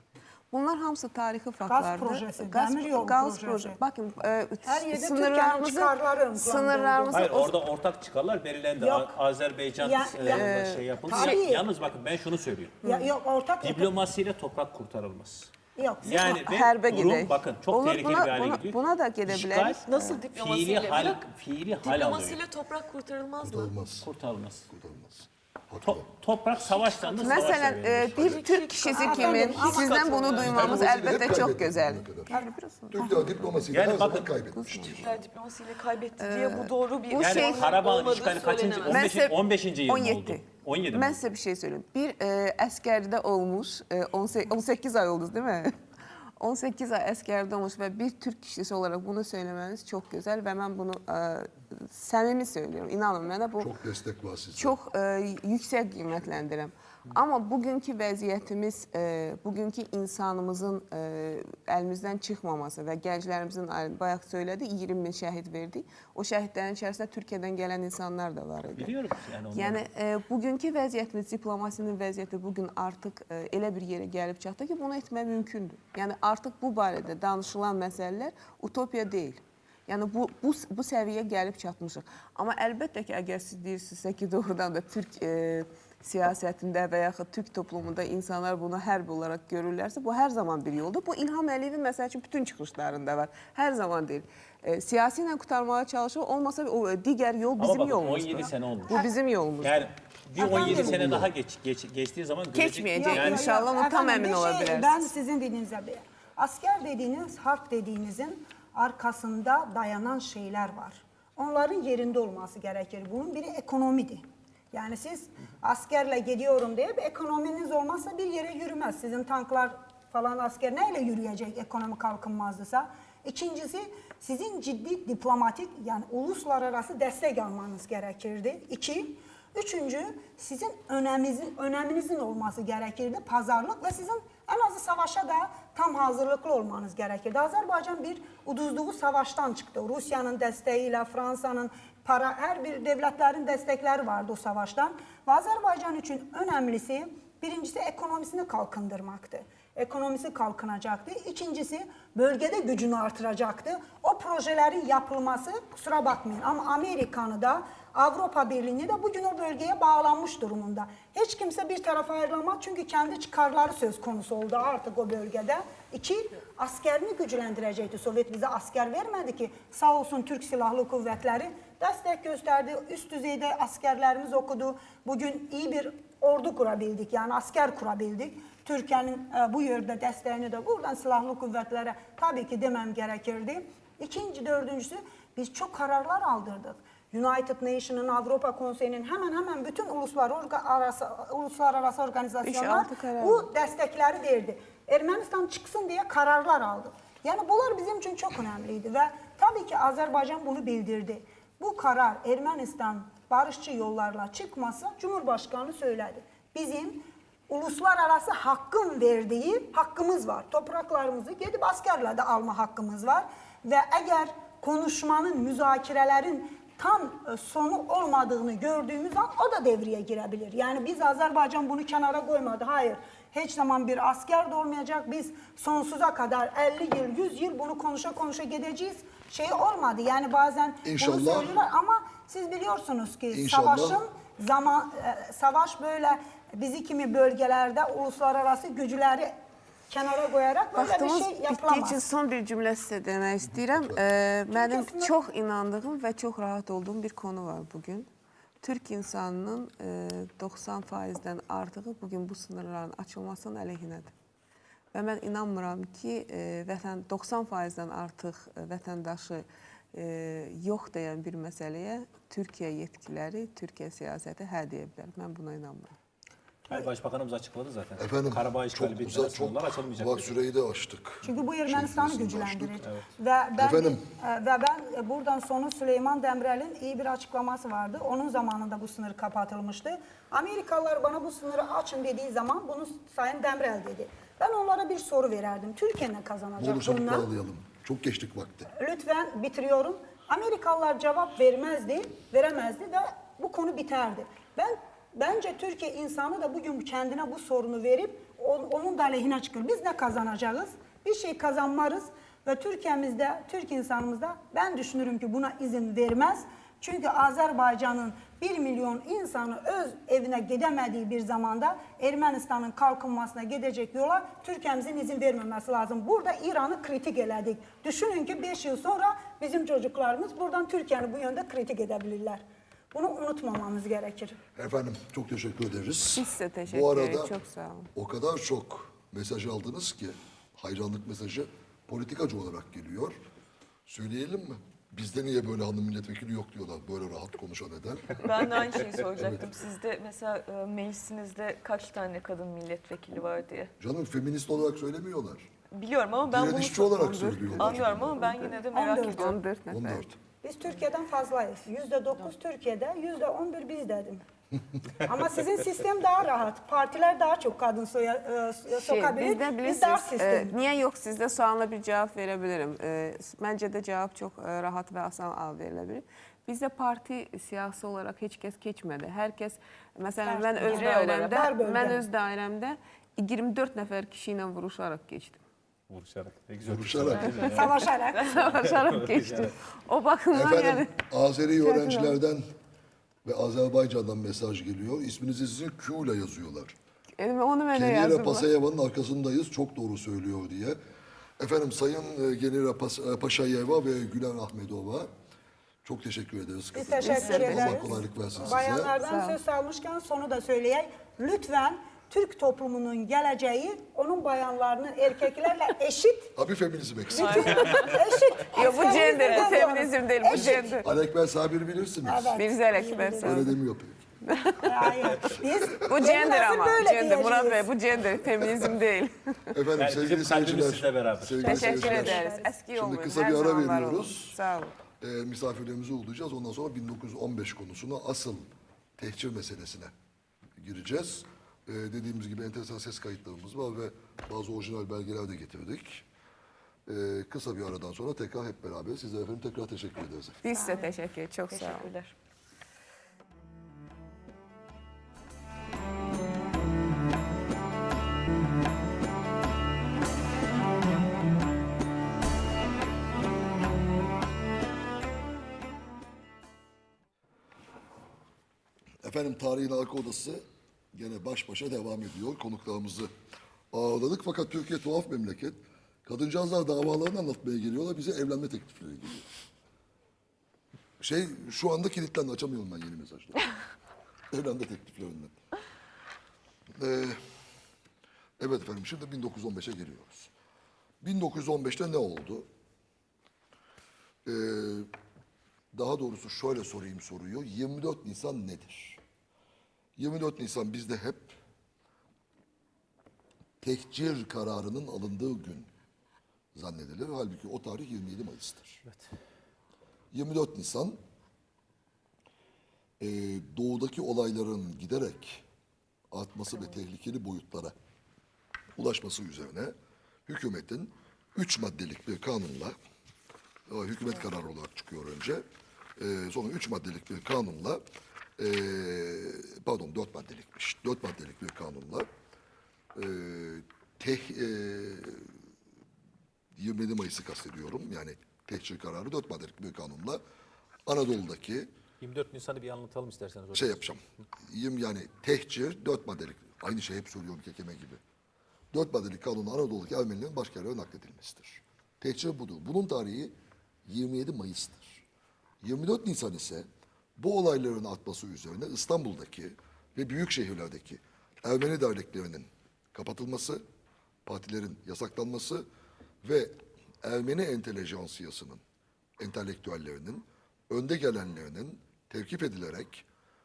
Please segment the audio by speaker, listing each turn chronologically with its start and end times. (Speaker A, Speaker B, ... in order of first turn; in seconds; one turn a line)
Speaker A: 0.5-7.6
Speaker B: 1.6-3.8
Speaker B: 4.6-7.3
Speaker C: 7.1-12.8
Speaker B: 8.8-9.2
Speaker B: 9.8-10.5
Speaker A: 10.2-11.4
Speaker B: 11.0-11.7
Speaker A: 12.8-13.1
Speaker B: 12.8-13.9
Speaker C: 13.6-15.5
Speaker B: 15.8-16.2
Speaker C: 16.0-19.8
Speaker A: 16.1-20.2
Speaker D: 19.9-21.2
Speaker C: 20.3-22.4
Speaker D: 21.8-23.7
Speaker E: 23.4-24.1
Speaker C: 24.0-24.7
Speaker E: 24.7-26.1
Speaker C: 25.8-28.4
Speaker D: 26.9-27.6
Speaker A: 27.2-33.6
Speaker D: 28.2-30.6
Speaker B: 28.9-29.9
Speaker C: 30.4-30.9
Speaker E: 30.4-32.3
Speaker E: 32.9-35.1
Speaker C: 33.7-34.3
Speaker A: 34.5-35.2
Speaker D: 34.9-39.1
Speaker A: 36.2-37.8
Speaker C: 37.1-41.2
Speaker A: 38.8-45.7
Speaker A: 46.4-53.7
Speaker E: 53.6-54.8
Speaker A: 54.6-69.0
Speaker C: 68.8-69.8
Speaker A: 69.5-99.9
Speaker C: 97.6-99.0
Speaker C: 99.6-103.5
Speaker B: 100.4-101.1
Speaker E: 100.5-101.3
Speaker A: 100.6-101.0
Speaker A: 102.5-105.1
Speaker B: 102.9-239.3
Speaker A: 192.4-193.5
Speaker E: 230.8-231.5
Speaker E: 233.3-234.0
Speaker B: 239.9-242.0
Speaker A: 240.7-248.1
Speaker B: 244.5-245.2
Speaker A: 248.6-254.1
Speaker A: 254.9-265.9
Speaker C: 266.6-270.5
Speaker E: 268.0-272.8
Speaker B: 271.2-287.3
Speaker C: 272.8-273.1
Speaker E: 273.6-274.0
Speaker E: 286.6-288.7
Speaker B: 288.8-322.4
Speaker B: 322.9-324.4
Speaker E: 324.6-327.3
Speaker A: 326.1-327.9
Speaker E: 327.9-333.2
Speaker E: 333.9-338.5
Speaker D: 338.1-343.7
Speaker E: 339.1-339.5
Speaker E: 343.8-345.5
Speaker D: 345.7-349.4
Speaker E: 346.3-348.3
Speaker A: 346.9-350.1
Speaker B: 348.7-349.4
Speaker E: 349.7-350.2
Speaker B: 350.4-354.2
Speaker B: 355.0-360.5
Speaker A: 358.8-375.4
Speaker B: 370.2-372.0
Speaker D: 370.6-371.3
Speaker C: 375.9-377.8
Speaker E: 376.6-377.6
Speaker B: 377.3-378.3
Speaker A: 378.1-382.2
Speaker C: 378.4-379.5
Speaker E: 380.3-382.4
Speaker E: 383.2-386.7
Speaker A: 387.2-388.5
Speaker E: 387.7-390.8
Speaker E: 391.4-395.1
Speaker E: 395.8-399.0
Speaker B: 396.7-406.3
Speaker A: 397.0-399.4
Speaker E: 406.4-407.6
Speaker D: 407.1-408.0
Speaker B: 407.1-410.8
Speaker A: 408.5-410.9
Speaker D: 408.6-409.6
Speaker E: 410.3-412.4
Speaker B: 412.0-413.5
Speaker A: 412.4-413.6
Speaker E: 413.2-414.0
Speaker A: 414.3-414.7
Speaker B: 414.6-417.7
Speaker A: 415.7-419.6
Speaker E: 419.5-424.4
Speaker C: 419.8-421.6
Speaker A: 421.4-424.7
Speaker B: 421.5-422.5
Speaker E: 425.0-429.9
Speaker E: 430.6-436.1
Speaker E: 436.9-440.4
Speaker A: 440.4-441.9
Speaker D: 440.5-440.9
Speaker D: 441.5-442.1
Speaker E: 459.0-463.1
Speaker E: 463.7-469.3
Speaker E: 471.0-473.4
Speaker E: 474.3-475.3
Speaker E: 476.8-477.2
Speaker E: 478.4-480.3
Speaker E: 481.0-482.5
Speaker E: 484.2-484.9
Speaker E: 485.7-489.0
Speaker E: 490.0-491.4
Speaker E: 493.6-495.7
Speaker E: 496.5-498.8
Speaker E: 500.1-501.0
Speaker E: 503.0-505.4
Speaker E: 506.1-507.8
Speaker E: 508.8-509.8
Speaker E: 510.3-512.8
Speaker E: 513.7-515.5
Speaker E: 516.0-517.8
Speaker E: 518.4-522.1
Speaker E: 523.0-525.3
Speaker E: 526.5-530.2
Speaker E: 530.9-531.7
Speaker C: 532.0-533.9
Speaker E: 533.5-538.0
Speaker E: 538.7-543.3
Speaker E: 543.9-545.0
Speaker E: 545.6-546.7
Speaker E: 547.2-553.6
Speaker E: 554.2-555.7
Speaker E: 556.2-558.6
Speaker E: 559.2-563.0